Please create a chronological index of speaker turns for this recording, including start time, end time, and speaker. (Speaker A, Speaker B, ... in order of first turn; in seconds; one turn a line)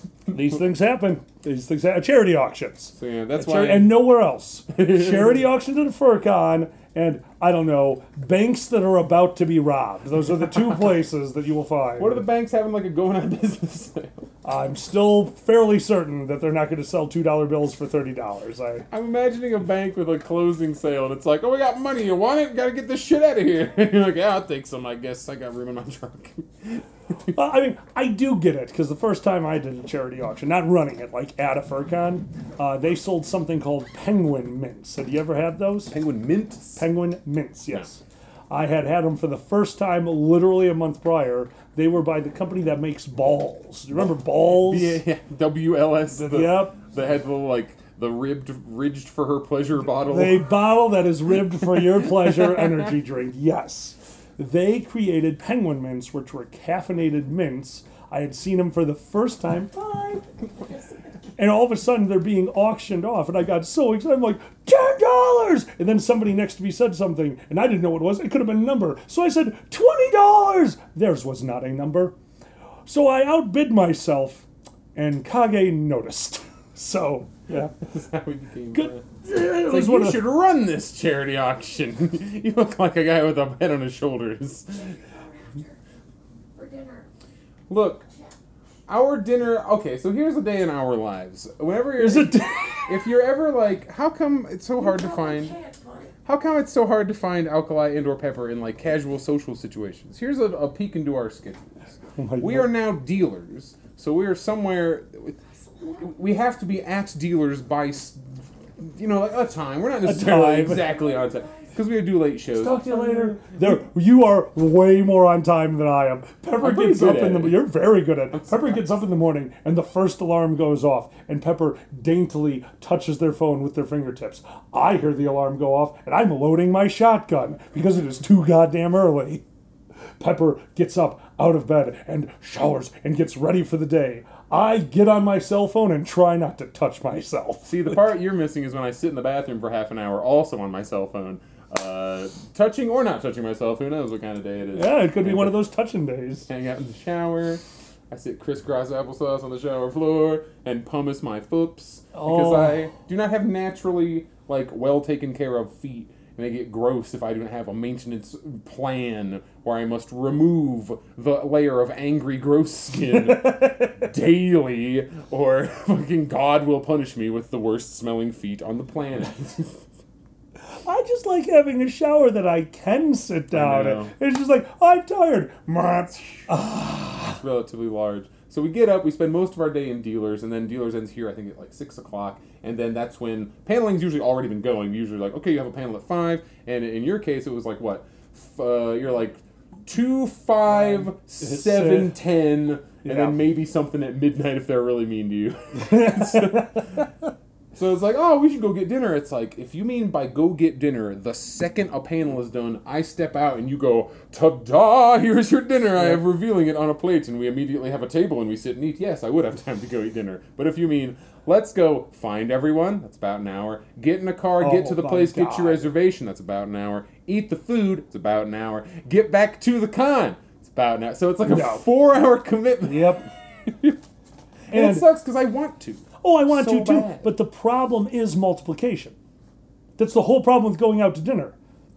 Speaker A: 0.3-0.6
Speaker B: 0.3-12.2
Speaker A: 2.9-4.1
Speaker A: 4.7-5.5
Speaker A: 12.0-14.2
Speaker B: 14.4-18.9
Speaker A: 18.9-27.3
Speaker B: 27.3-35.9
Speaker A: 35.9-36.8
Speaker B: 36.8-45.0
Speaker A: 44.0-50.6
Speaker B: 46.1-46.8
Speaker B: 50.0-60.2
Speaker A: 51.6-52.9
Speaker B: 61.4-72.1
Speaker B: 72.8-77.7
Speaker A: 77.5-85.0
Speaker B: 78.7-80.2
Speaker C: 84.8-85.7
Speaker C: 86.5-87.0
Speaker A: 87.7-88.1
Speaker A: 88.9-95.5
Speaker B: 92.0-92.9
Speaker C: 94.8-96.1
Speaker A: 96.2-113.0
Speaker B: 102.2-102.7
Speaker B: 110.0-110.9
Speaker C: 110.7-111.7
Speaker B: 112.5-129.4
Speaker A: 116.6-117.7
Speaker A: 118.3-118.8
Speaker B: 130.2-138.0
Speaker A: 137.7-145.6
Speaker B: 144.7-146.5
Speaker A: 146.5-169.9
Speaker B: 152.1-152.9
Speaker B: 163.2-164.1
Speaker B: 170.7-177.4
Speaker A: 173.5-174.1
Speaker A: 176.2-176.5
Speaker A: 177.1-196.9
Speaker B: 190.7-192.1
Speaker B: 193.0-193.4
Speaker B: 195.8-197.0
Speaker A: 197.7-224.0
Speaker B: 214.6-215.9
Speaker B: 221.4-221.8
Speaker B: 222.8-223.2
Speaker A: 224.7-227.3
Speaker B: 224.7-225.1
Speaker B: 226.2-229.2
Speaker B: 230.0-231.5